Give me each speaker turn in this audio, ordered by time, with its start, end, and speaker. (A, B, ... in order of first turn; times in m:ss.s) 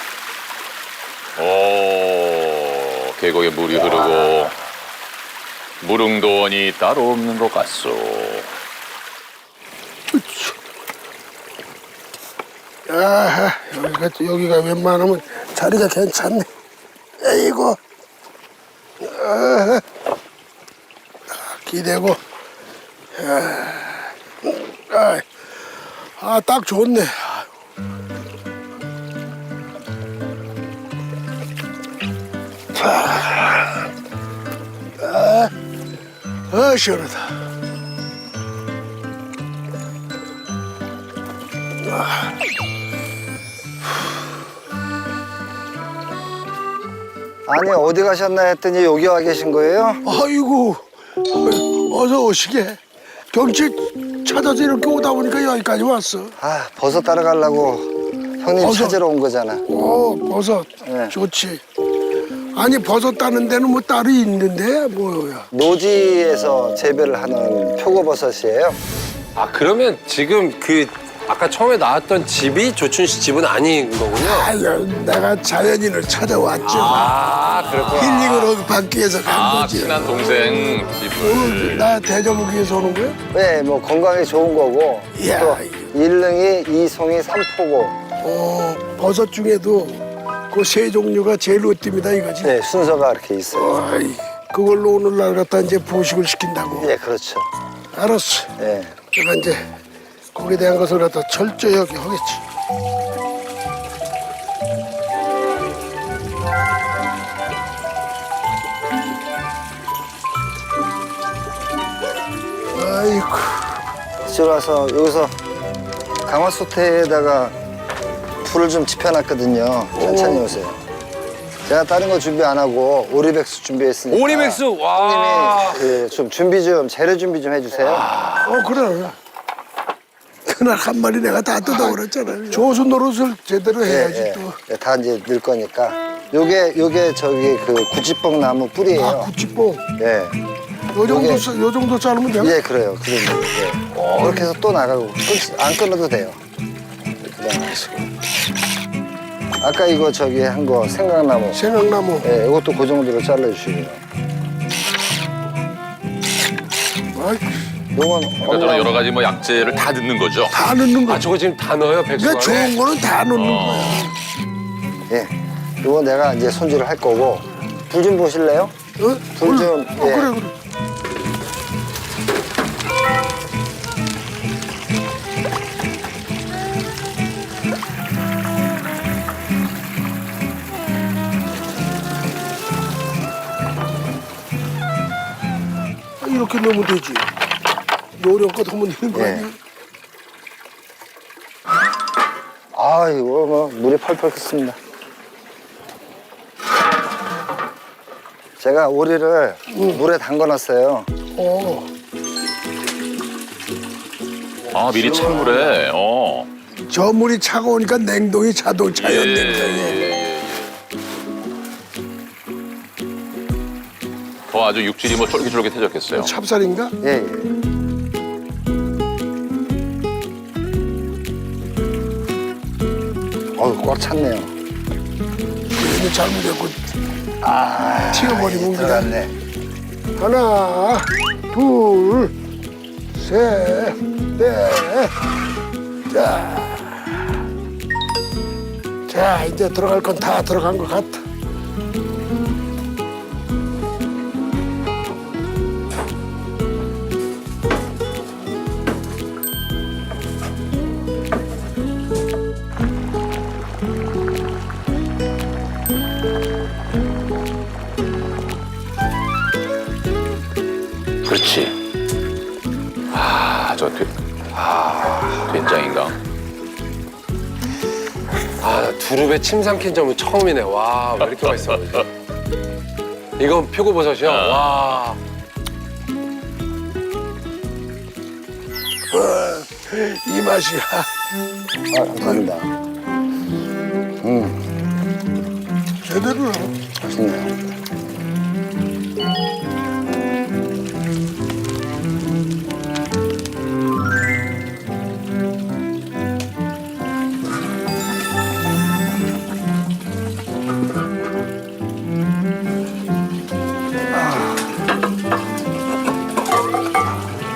0:01.4-0:04.6 A
0:05.8-0:08.5 A
0:10.1-0:10.6 B
0:12.9-0:16.5 B
0:17.2-0:17.8 B
0:19.0-0:19.8 B
0:21.3-0:22.2 B
0:23.1-0:25.2 B
0:26.0-0:27.5 B
0:32.7-0:33.9 B
0:35.0-0:35.5 B
0:36.5-0:37.4 B
0:41.8-0:42.4 B
0:47.4-0:50.0 C
0:50.0-0:52.8 B
0:53.3-0:56.3 B
0:56.4-0:59.6 C
0:58.6-0:59.0 B
0:59.7-1:01.6 B
1:00.8-1:01.2 C
1:02.5-1:05.5 B
1:05.5-1:08.8 C
1:09.3-1:14.5 D
1:14.1-1:17.2 B
1:16.7-1:18.5 D
1:16.7-1:18.0 A
1:17.9-1:20.2 B
1:19.2-1:21.9 A
1:21.1-1:23.2 B
1:23.3-1:28.0 C
1:25.1-1:25.9 B
1:28.2-1:32.5 B
1:32.4-1:33.8 C
1:33.5-1:36.9 B
1:36.8-1:37.5 C
1:37.9-1:38.5 B
1:38.6-1:39.0 C
1:39.1-1:39.7 B
1:40.3-1:42.4 B
1:52.7-1:53.8 B
1:54.2-1:55.3 C
1:56.2-1:57.6 C
1:58.4-2:00.8 C
1:59.9-2:00.5 B
2:01.6-2:08.1 C
2:04.1-2:05.9 D
2:07.8-2:08.6 D
2:08.4-2:09.2 B
2:10.4-2:14.6 B
2:13.8-2:19.3 C
2:19.0-2:19.8 B
2:20.0-2:20.4 C
2:20.9-2:22.5 B
2:21.0-2:21.5 C
2:22.4-2:26.4 C
2:23.9-2:24.5 B
2:27.2-2:28.1 C
2:29.6-2:31.6 C
2:31.5-2:32.3 B
2:32.2-2:34.0 C
2:37.1-2:37.6 B
2:37.9-2:39.0 C
2:38.4-2:40.6 A
2:40.5-2:41.2 B
2:41.0-2:42.8 D
2:42.2-2:44.1 B
2:43.3-2:44.1 A
2:45.1-2:48.7 C
2:49.0-2:50.5 B
2:49.3-2:50.3 C
3:06.2-3:07.3 B
3:08.2-3:09.6 B
3:09.1-3:09.5 C
3:12.7-3:14.8 C
3:18.6-3:21.1 C
3:19.7-3:20.0 B
3:21.3-3:21.9 B
3:24.7-3:26.5 A
3:26.8-3:30.1 B
3:28.9-3:30.8 A
3:34.5-3:36.3 A
3:36.2-3:36.9 B
3:37.0-3:37.5 C
3:43.6-3:44.5 C
3:45.7-3:46.8 B
3:47.4-3:49.4 C
3:48.1-3:49.1 B
3:50.2-3:52.3 B
3:53.1-3:55.1 B
3:56.1-3:57.3 B
3:59.1-4:01.2 B
4:21.2-4:21.7 A
4:23.1-4:24.1 A
4:24.5-4:25.6 D
4:25.5-4:26.2 A
4:28.6-4:32.1 D
4:31.2-4:31.7 A
4:33.4-4:35.2 D
4:34.2-4:34.8 A
4:39.1-4:41.1 B
4:41.9-4:42.7 C
4:44.2-4:44.7 C
4:46.0-4:46.8 B
4:47.0-4:47.6 C
5:04.1-5:04.6 C